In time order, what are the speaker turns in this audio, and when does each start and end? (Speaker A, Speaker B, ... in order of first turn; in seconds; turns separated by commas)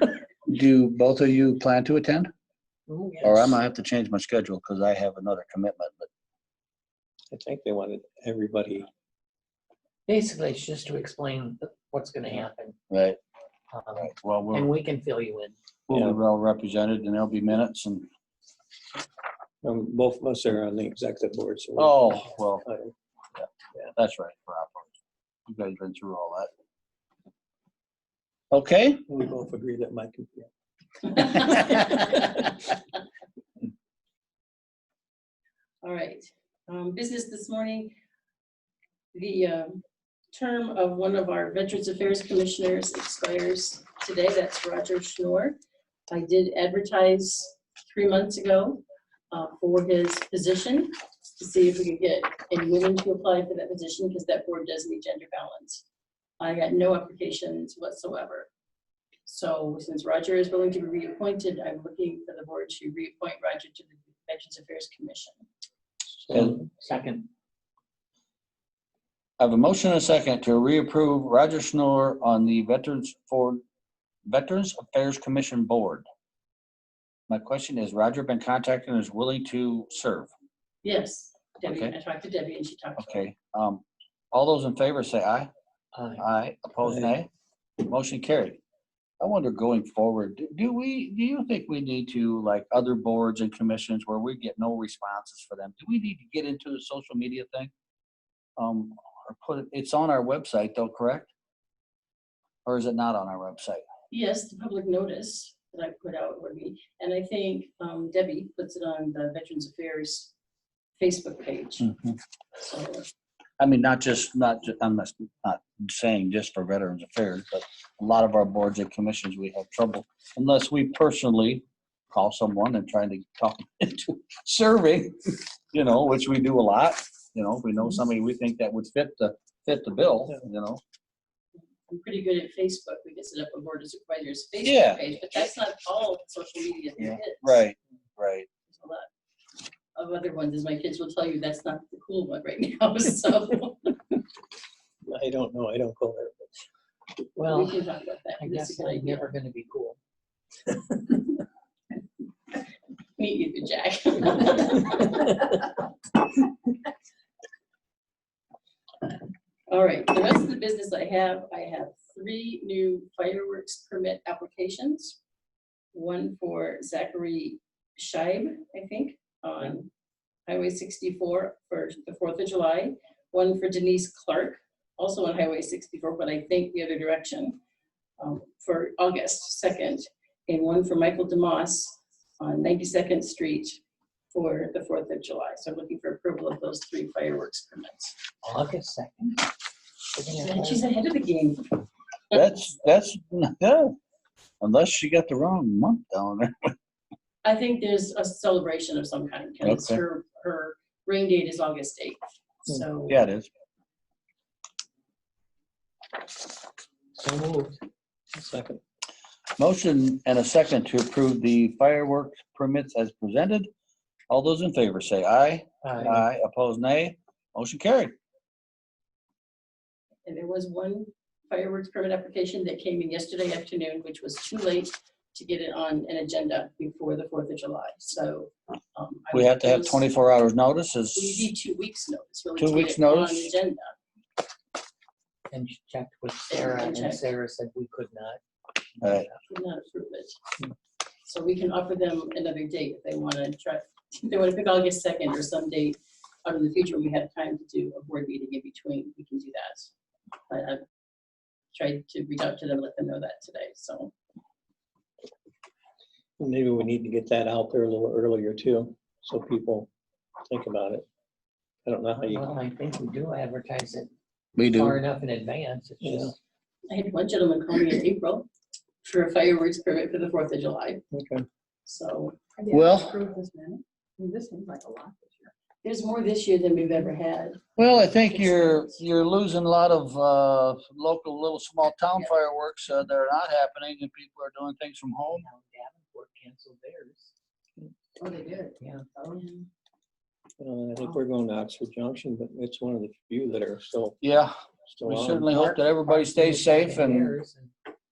Speaker A: 0.5-2.3, Speaker B: 2.9-3.6, Speaker A: 3.2-6.1, Speaker C: 7.3-8.9, Speaker B: 10.1-12.8, Speaker A: 12.9-13.2, Speaker B: 13.7-15.6, Speaker A: 14.0-14.7, Speaker A: 15.9-18.1, Speaker C: 15.9-16.2, Speaker C: 19.6-22.9, Speaker A: 21.8-22.7, Speaker A: 23.4-24.9, Speaker A: 25.5-26.5, Speaker A: 28.5-29.0, Speaker C: 29.1-30.5, Speaker C: 31.1-32.3, Speaker D: 35.8-37.9, Speaker D: 39.1-39.7, Speaker D: 40.3-45.5, Speaker D: 46.1-55.8, Speaker D: 56.4-58.5, Speaker D: 59.2-65.5, Speaker C: 66.2-66.7, Speaker B: 66.3-67.3, Speaker A: 69.4-73.6, Speaker A: 74.2-76.0, Speaker A: 77.3-80.3, Speaker D: 80.8-83.3, Speaker A: 81.6-81.9, Speaker A: 83.0-85.5, Speaker B: 85.9-86.2, Speaker A: 86.2-87.3, Speaker C: 86.8-87.1, Speaker A: 87.8-88.6, Speaker A: 89.2-97.7, Speaker A: 98.6-101.3, Speaker A: 102.7-103.8, Speaker D: 104.1-110.3, Speaker D: 111.0-111.9, Speaker A: 111.8-112.1, Speaker D: 112.6-113.1, Speaker A: 113.6-130.8, Speaker D: 131.9-137.6, Speaker A: 134.6-135.0, Speaker A: 137.0-138.5, Speaker D: 138.7-139.1, Speaker D: 139.9-144.2, Speaker C: 145.0-146.6, Speaker B: 147.3-147.8, Speaker D: 147.4-149.3, Speaker B: 148.3-150.0, Speaker D: 153.2-155.5, Speaker D: 159.7-165.2, Speaker D: 165.9-169.9, Speaker D: 170.5-177.6, Speaker D: 178.2-183.8, Speaker D: 184.3-188.2, Speaker B: 188.4-189.4, Speaker B: 190.1-190.9, Speaker D: 190.4-192.4, Speaker A: 192.3-193.9, Speaker A: 194.6-196.7, Speaker D: 197.4-203.2, Speaker A: 199.6-200.0, Speaker A: 203.1-203.5, Speaker B: 207.2-207.8, Speaker C: 208.3-208.8, Speaker A: 209.6-213.7, Speaker A: 214.3-218.1, Speaker B: 215.8-216.2, Speaker D: 220.2-230.0, Speaker A: 229.3-231.5, Speaker D: 231.1-233.9, Speaker A: 232.6-233.5, Speaker B: 235.5-238.4, Speaker D: 236.5-237.3, Speaker B: 238.9-239.3, Speaker A: 239.0-239.3, Speaker D: 239.5-240.3, Speaker D: 241.2-249.9, Speaker D: 250.5-250.8, Speaker D: 251.7-254.1, Speaker C: 256.4-259.9, Speaker C: 260.5-261.1, Speaker C: 261.9-262.5, Speaker B: 262.3-264.1, Speaker A: 264.6-265.0, Speaker B: 264.7-266.3, Speaker C: 266.0-266.3, Speaker D: 266.9-268.5, Speaker D: 269.0-271.0, Speaker C: 271.1-271.4, Speaker D: 271.9-273.0, Speaker E: 272.6-275.5, Speaker A: 272.7-273.1, Speaker D: 275.8-279.0, Speaker A: 277.8-285.4, Speaker B: 285.3-287.3, Speaker E: 288.2-289.6, Speaker B: 288.8-289.1, Speaker C: 290.6-294.2, Speaker A: 294.2-297.3, Speaker C: 294.9-295.7, Speaker B: 295.6-297.7